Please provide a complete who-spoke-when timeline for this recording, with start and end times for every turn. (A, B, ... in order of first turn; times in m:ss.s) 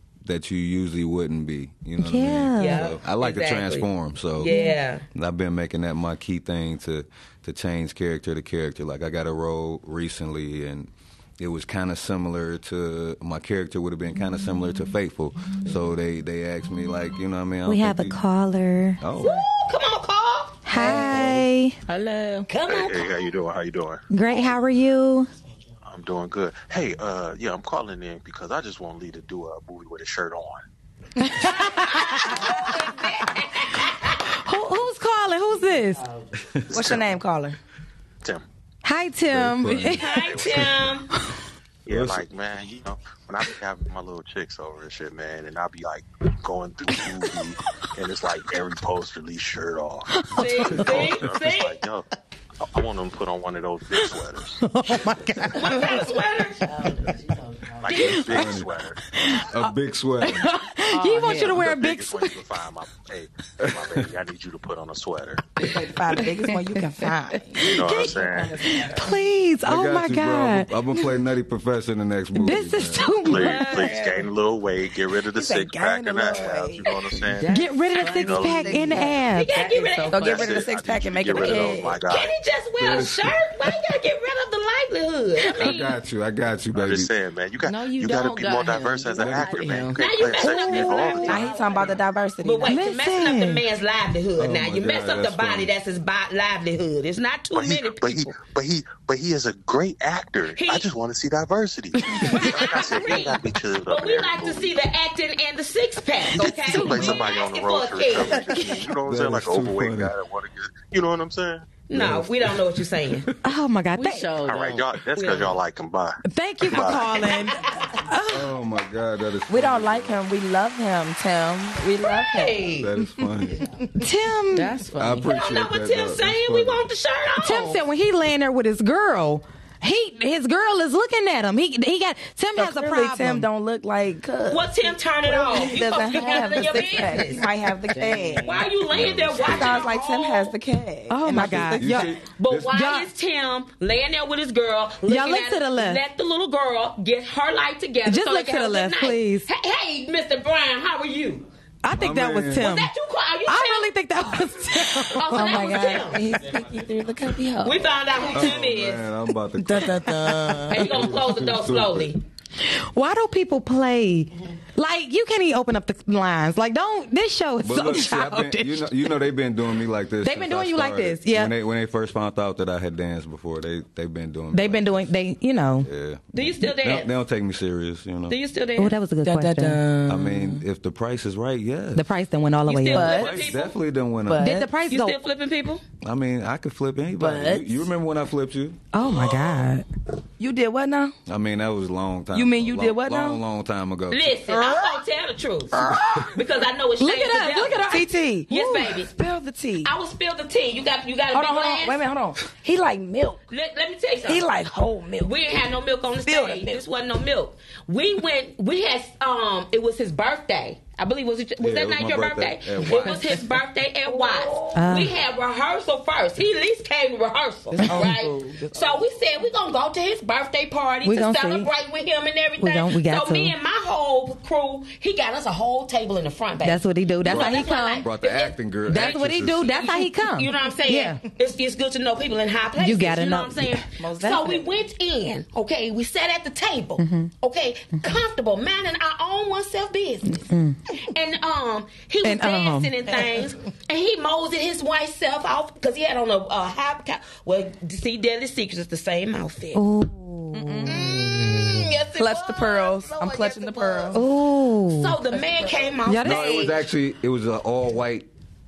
0:00.2-0:04.5 A
0:02.0-0:02.8 B
0:02.6-0:05.0 C
0:04.5-0:04.7 B
0:05.1-0:18.2 A
0:17.6-0:19.0 B
0:19.0-0:19.4 A
0:19.2-0:20.7 C
0:20.6-0:21.8 B
0:20.7-0:22.5 D
0:22.5-0:23.3 C
0:22.6-0:24.1 E
0:24.1-0:25.3 B
0:25.8-0:30.6 E
0:31.2-0:32.7 B
0:31.4-0:34.3 C
0:34.3-0:36.0 B
0:36.3-0:37.0 A
0:36.7-0:37.1 E
0:36.7-0:37.6 F
0:38.8-0:40.2 B
0:39.3-0:40.7 A
0:40.0-0:41.1 C
0:40.1-0:41.0 E
0:41.8-0:52.1 E
0:41.9-0:42.3 A
0:50.1-0:51.0 B
0:50.3-0:51.8 C
0:52.7-0:54.7 E
0:54.0-0:55.9 B
0:55.5-0:57.1 C
0:56.8-0:57.1 D
0:57.6-0:57.9 D
0:57.8-0:59.0 E
0:57.9-0:58.5 B
0:58.1-0:58.7 A
0:59.1-0:59.7 B
0:59.3-1:00.5 A
1:00.2-1:02.4 B
1:00.9-1:01.7 D
1:01.3-1:05.6 E
1:03.6-1:04.1 A
1:05.6-1:09.1 F
1:07.6-1:08.8 E
1:07.6-1:10.7 B
1:08.3-1:09.0 D
1:09.6-1:13.2 A
1:12.3-1:13.9 B
1:13.2-1:19.1 E
1:13.3-1:14.3 F
1:15.2-1:17.0 F
1:17.2-1:20.6 D
1:17.5-1:19.5 B
1:18.6-1:19.1 F
1:19.3-1:20.6 C
1:20.1-1:22.0 F
1:20.1-1:22.3 E
1:21.3-1:21.9 D
1:21.4-1:26.0 C
1:22.8-1:23.4 A
1:25.6-1:27.1 A
1:26.7-1:31.7 E
1:27.6-1:30.0 D
1:29.2-1:29.9 A
1:30.0-1:38.4 C
1:30.4-1:31.4 B
1:31.2-1:32.8 F
1:31.4-1:31.9 D
1:32.7-1:33.6 B
1:34.4-1:35.7 A
1:37.5-1:44.7 E
1:40.5-1:40.9 C
1:42.1-1:48.7 C
1:46.4-1:51.8 E
1:46.4-1:47.3 B
1:49.0-1:50.1 A
1:51.9-1:53.3 C
1:51.9-1:52.7 A
1:53.4-1:54.3 B
1:54.0-1:55.0 D
1:54.3-1:57.3 E
1:55.1-1:55.6 C
1:56.2-1:58.5 B
1:56.9-1:57.9 C
1:58.3-2:00.2 A
1:59.5-2:03.8 F
2:02.0-2:02.9 C
2:02.7-2:03.6 A
2:04.0-2:04.7 B
2:04.5-2:05.3 D
2:05.0-2:06.8 A
2:05.2-2:07.8 C
2:07.4-2:13.5 B
2:12.6-2:18.6 F
2:14.5-2:17.5 C
2:16.1-2:16.5 D
2:17.9-2:18.7 D
2:18.4-2:20.5 C
2:18.9-2:19.9 A
2:19.4-2:22.1 F
2:21.1-2:22.1 B
2:21.3-2:22.8 A
2:22.2-2:31.5 C
2:22.7-2:23.1 B
2:25.0-2:26.0 B
2:28.0-2:29.5 B
2:31.8-2:32.9 B
2:31.9-2:32.7 A
2:32.6-2:33.9 C
2:33.5-2:35.7 B
2:35.1-2:36.2 C
2:35.3-2:37.9 F
2:37.6-2:39.0 C
2:38.3-2:42.1 A
2:39.6-2:40.9 F
2:40.7-2:42.2 C
2:42.6-2:48.9 B
2:47.6-2:55.1 A
2:50.2-2:51.5 B
2:54.5-2:55.9 B
2:55.8-2:58.4 A
2:56.3-2:57.1 C
2:58.3-2:59.0 C
2:58.8-2:59.8 B
2:59.2-3:00.6 F
3:00.1-3:02.1 A
3:01.9-3:03.1 B
3:02.7-3:03.7 C
3:02.9-3:03.5 F
3:03.0-3:04.6 A
3:04.2-3:04.7 F
3:04.4-3:05.2 B
3:04.9-3:05.8 C
3:06.0-3:08.8 A
3:07.2-3:07.9 F
3:08.9-3:09.8 B
3:10.4-3:11.1 F
3:11.2-3:14.4 A
3:12.3-3:13.4 F
3:14.1-3:19.1 C
3:14.5-3:15.0 F
3:15.7-3:16.4 F
3:17.0-3:18.9 B
3:17.9-3:19.9 F
3:19.8-3:22.0 C
3:21.3-3:23.4 F
3:23.5-3:24.5 C
3:24.2-3:25.3 F
3:25.2-4:00.5 C
3:26.2-3:26.8 F
3:31.6-3:33.5 A
3:34.0-3:34.8 F
3:34.7-3:35.1 B
3:37.7-3:39.0 F
3:41.0-3:41.7 B
3:42.6-3:43.5 B
3:46.6-3:48.0 B
3:47.2-3:49.8 A
3:48.9-3:51.2 B
3:52.8-3:53.5 B
3:54.0-3:54.7 F
3:57.0-3:57.3 B
4:00.3-4:00.8 B
4:01.0-4:09.8 C
4:02.2-4:02.9 B
4:03.1-4:03.4 F
4:09.7-4:11.0 B
4:10.5-4:14.2 F
4:10.8-4:14.2 C
4:14.1-4:15.2 B
4:14.9-4:16.8 C
4:15.3-4:15.9 F
4:16.0-4:16.4 B
4:16.2-4:18.3 A